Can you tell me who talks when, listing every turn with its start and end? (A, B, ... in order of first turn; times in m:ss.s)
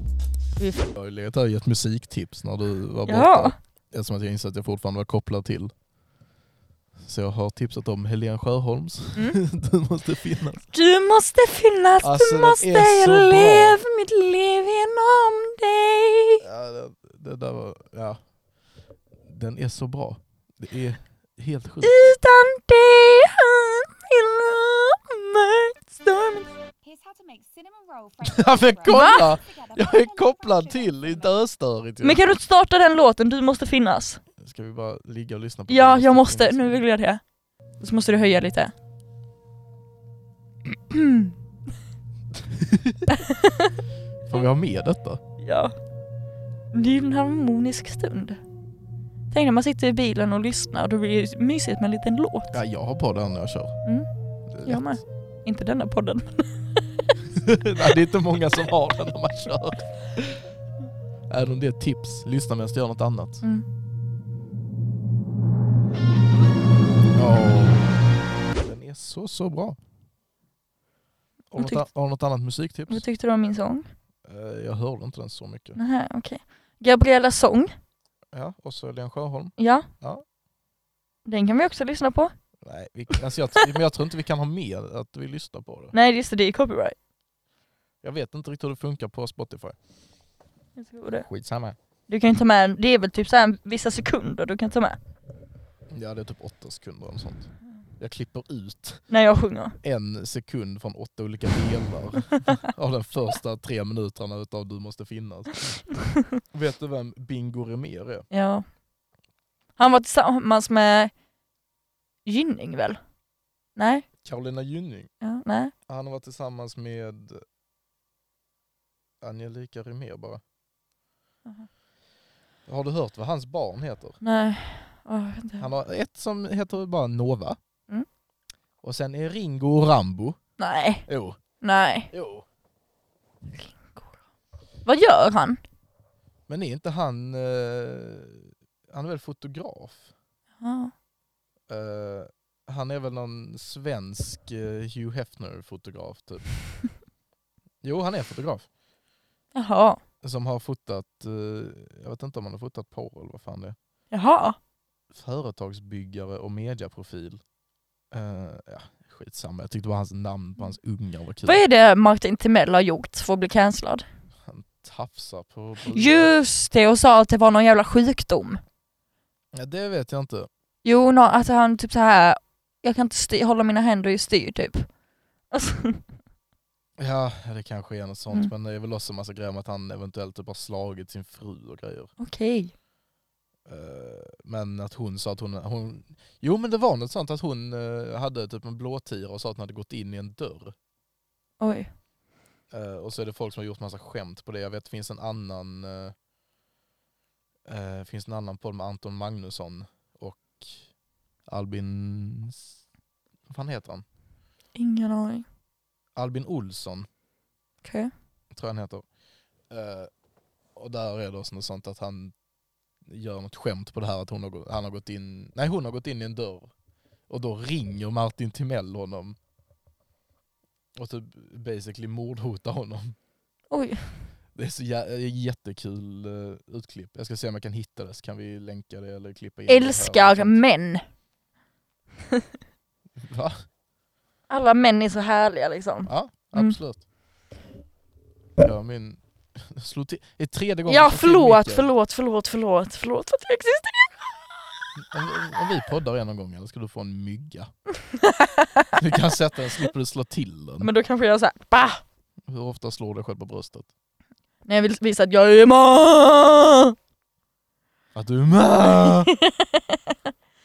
0:00.6-0:00.9 A
0:00.9-0:05.7 B
0:03.0-0:03.6 A
0:07.0-0:10.6 B
0:10.7-0:16.4 A
0:12.0-0:13.8 B
0:16.4-0:18.2 B
0:19.2-0:22.0 B
0:21.8-0:26.5 A
0:26.8-0:31.3 C
0:28.2-0:32.2 B
0:28.8-0:29.3 A
0:32.0-0:34.2 A
0:34.4-0:36.8 B
0:35.7-0:37.2 A
0:37.8-0:38.7 A
0:40.9-0:41.3 A
0:42.4-0:43.1 B
0:43.1-0:43.7 A
0:44.2-0:45.2 B
0:45.4-0:45.7 A
0:46.7-0:48.4 A
0:49.3-0:52.5 A
0:52.5-0:53.8 B
0:54.5-0:55.0 B
0:54.6-0:56.8 A
0:57.3-1:00.4 B
1:01.3-1:03.4 B
1:07.1-1:08.0 B
1:08.6-1:09.8 B
1:11.5-1:13.0 B
1:11.6-1:11.9 A
1:12.9-1:13.9 A
1:14.2-1:15.8 B
1:15.7-1:17.7 A
1:18.3-1:20.2 B
1:19.6-1:19.9 A
1:21.2-1:22.3 A
1:22.6-1:25.9 B
1:25.9-1:27.0 A
1:28.0-1:29.8 B
1:30.8-1:31.3 A
1:31.2-1:31.8 B
1:32.1-1:35.0 A
1:35.9-1:39.0 B
1:39.1-1:39.8 A
1:39.8-1:45.8 B
1:46.5-1:48.3 B
1:48.3-1:48.6 A
1:49.8-1:51.1 A
1:52.2-1:53.0 A
1:53.8-1:54.0 A
1:54.2-1:55.1 B
1:55.2-1:55.7 A
1:55.9-1:57.4 B
1:59.2-2:00.4 B
2:02.7-2:04.2 B
2:04.2-2:05.7 A
2:05.6-2:07.6 B
2:08.8-2:10.4 B
2:10.6-2:11.0 A
2:11.1-2:11.4 B
2:11.6-2:12.1 A
2:12.1-2:12.4 B
2:13.6-2:14.1 A
2:14.8-2:15.6 A
2:16.5-2:20.1 B
2:20.6-2:20.9 A
2:21.7-2:26.5 B
2:27.8-2:28.7 B
2:29.5-2:30.0 A
2:30.2-2:33.8 B
2:34.1-2:34.6 A
2:35.1-2:37.4 B
2:38.1-2:41.6 B
2:41.4-2:44.0 A
2:44.4-2:46.3 B
2:45.9-2:48.6 A
2:49.5-2:50.5 B
2:50.8-2:54.9 A
2:55.5-2:56.0 A
2:57.0-3:02.1 B
3:02.2-3:02.7 A
3:03.7-3:10.7 B
3:11.6-3:11.9 A
3:12.7-3:16.1 B
3:17.7-3:20.8 B
3:21.5-3:22.7 B
3:23.5-3:24.0 B
3:24.7-3:25.4 A
3:26.2-3:27.1 B
3:27.8-3:28.1 A
3:28.5-3:29.0 B
3:29.7-3:30.1 B
3:30.8-3:32.3 B
3:33.0-3:36.7 B
3:37.3-3:39.4 B
3:41.0-3:43.2 B
3:43.7-3:44.0 A
3:44.5-3:50.6 B
3:49.7-3:51.0 A
3:53.2-3:53.6 B
3:54.5-3:56.8 A
3:56.0-3:57.0 B
3:58.6-4:01.9 B
4:00.9-4:04.3 A
4:05.0-4:07.7 B
4:08.1-4:09.0 A
4:09.0-4:10.9 B
4:10.8-4:12.0 A
4:12.5-4:13.9 B
4:14.6-4:16.9 A
4:18.1-4:19.3 B
4:19.3-4:20.0 A